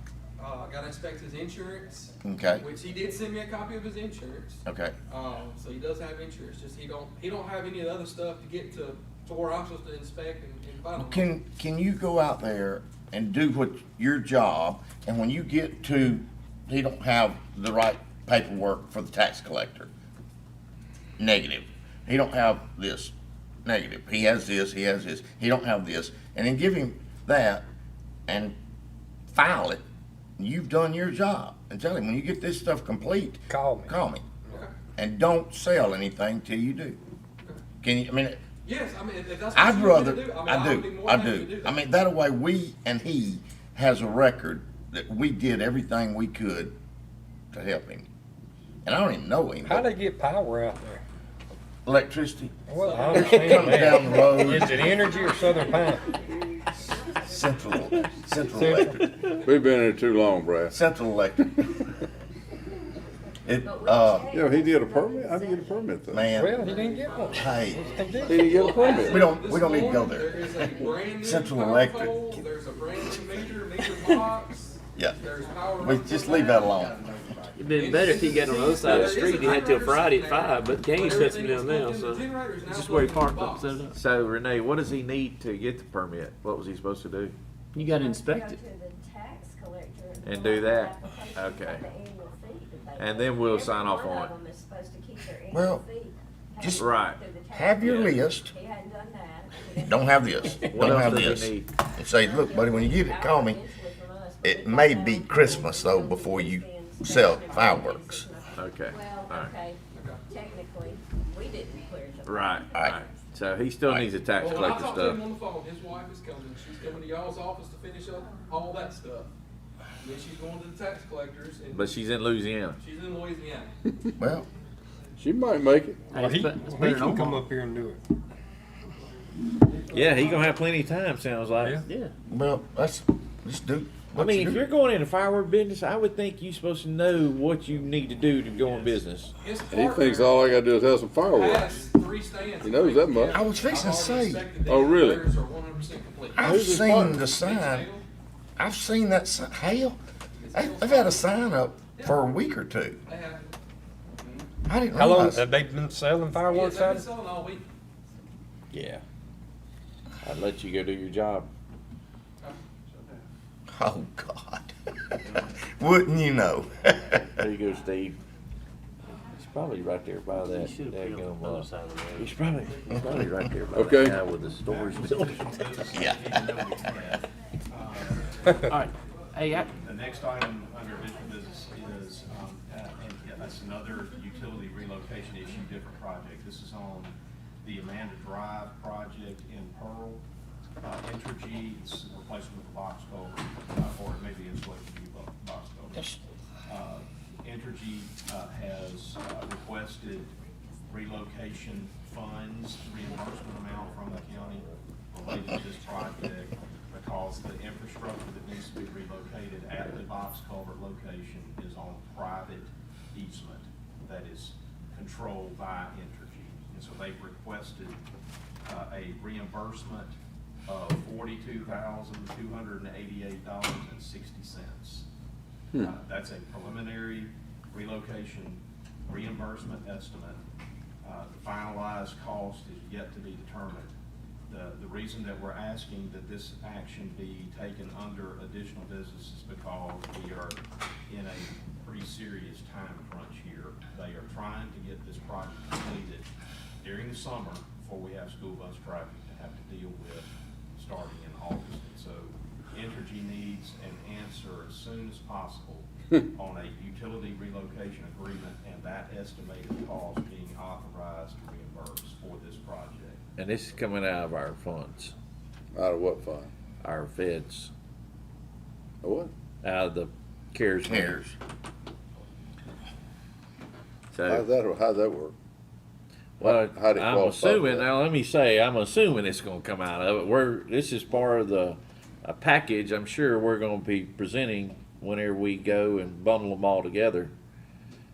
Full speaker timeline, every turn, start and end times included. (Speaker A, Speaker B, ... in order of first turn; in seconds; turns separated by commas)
Speaker A: 0.4-11.3, Speaker B: 2.2-2.6, Speaker B: 4.7-4.9, Speaker B: 10.9-19.9, Speaker B: 21.2-23.1, Speaker B: 23.6-27.6, Speaker B: 28.3-28.6, Speaker B: 29.3-29.8, Speaker B: 30.4-34.2, Speaker C: 33.5-33.9, Speaker B: 35.0-37.0, Speaker B: 37.8-38.4, Speaker A: 38.6-41.8, Speaker B: 39.5-46.7, Speaker B: 47.5-48.1, Speaker B: 48.9-49.9, Speaker C: 49.6-51.0, Speaker B: 51.9-55.1, Speaker C: 52.7-56.2, Speaker A: 52.8-54.3, Speaker D: 54.9-58.6, Speaker B: 57.2-59.1, Speaker C: 58.5-59.4, Speaker E: 59.4-60.8, Speaker B: 60.7-61.6, Speaker B: 63.5-64.3, Speaker D: 63.6-66.0, Speaker E: 64.3-66.4, Speaker B: 66.1-66.7, Speaker C: 66.3-68.5, Speaker D: 66.5-67.6, Speaker A: 66.8-76.9, Speaker B: 67.3-68.0, Speaker E: 68.2-69.3, Speaker B: 69.0-72.2, Speaker D: 70.6-71.1, Speaker B: 75.8-77.4, Speaker F: 77.6-84.0, Speaker A: 77.7-83.8, Speaker G: 83.9-87.3, Speaker F: 87.7-88.6, Speaker D: 88.0-100.6, Speaker G: 90.2-91.9, Speaker G: 93.0-94.3, Speaker B: 95.5-95.8, Speaker B: 96.6-96.9, Speaker G: 96.8-97.2, Speaker B: 97.5-98.5, Speaker G: 97.8-98.2, Speaker B: 99.8-103.6, Speaker G: 100.7-101.7, Speaker D: 102.2-112.6, Speaker B: 104.4-108.3, Speaker G: 108.6-109.5, Speaker A: 109.9-110.2, Speaker G: 112.2-115.2, Speaker A: 114.4-119.3, Speaker A: 120.0-121.9, Speaker G: 121.7-122.8, Speaker A: 122.8-123.7, Speaker B: 124.2-124.5, Speaker E: 125.2-126.1, Speaker F: 126.1-127.5, Speaker C: 126.1-128.0, Speaker G: 129.9-131.8, Speaker F: 131.8-132.1, Speaker B: 132.3-134.7, Speaker G: 134.2-139.3, Speaker A: 139.4-140.4, Speaker E: 139.7-141.8, Speaker A: 141.3-146.4, Speaker E: 142.6-143.4, Speaker B: 143.3-144.4, Speaker E: 144.7-145.3, Speaker B: 146.4-147.9, Speaker E: 146.4-147.2, Speaker A: 147.2-148.0, Speaker B: 148.6-150.0, Speaker A: 150.4-151.2, Speaker B: 150.5-153.0, Speaker A: 152.0-152.2, Speaker A: 153.1-153.5, Speaker B: 154.7-155.5, Speaker C: 154.9-157.1, Speaker A: 156.5-157.7, Speaker G: 158.7-159.0, Speaker G: 160.2-161.5, Speaker B: 163.7-167.3, Speaker G: 167.3-168.2, Speaker G: 169.3-175.4, Speaker F: 170.6-172.3, Speaker E: 173.7-174.2, Speaker H: 174.6-178.4, Speaker B: 175.9-176.2, Speaker F: 178.7-179.7, Speaker H: 179.7-190.2, Speaker H: 190.8-196.1, Speaker H: 196.7-200.3, Speaker H: 200.9-218.0, Speaker H: 218.7-220.1, Speaker H: 220.7-225.1, Speaker H: 225.8-230.4, Speaker H: 231.0-233.9, Speaker H: 234.5-246.3, Speaker H: 246.8-263.2, Speaker G: 263.4-265.1, Speaker E: 265.7-266.5, Speaker G: 266.8-267.7, Speaker E: 269.0-269.3, Speaker G: 269.6-271.2, Speaker B: 270.9-271.4, Speaker G: 274.1-274.5, Speaker E: 274.3-275.3, Speaker G: 276.4-287.3, Speaker E: 276.4-277.9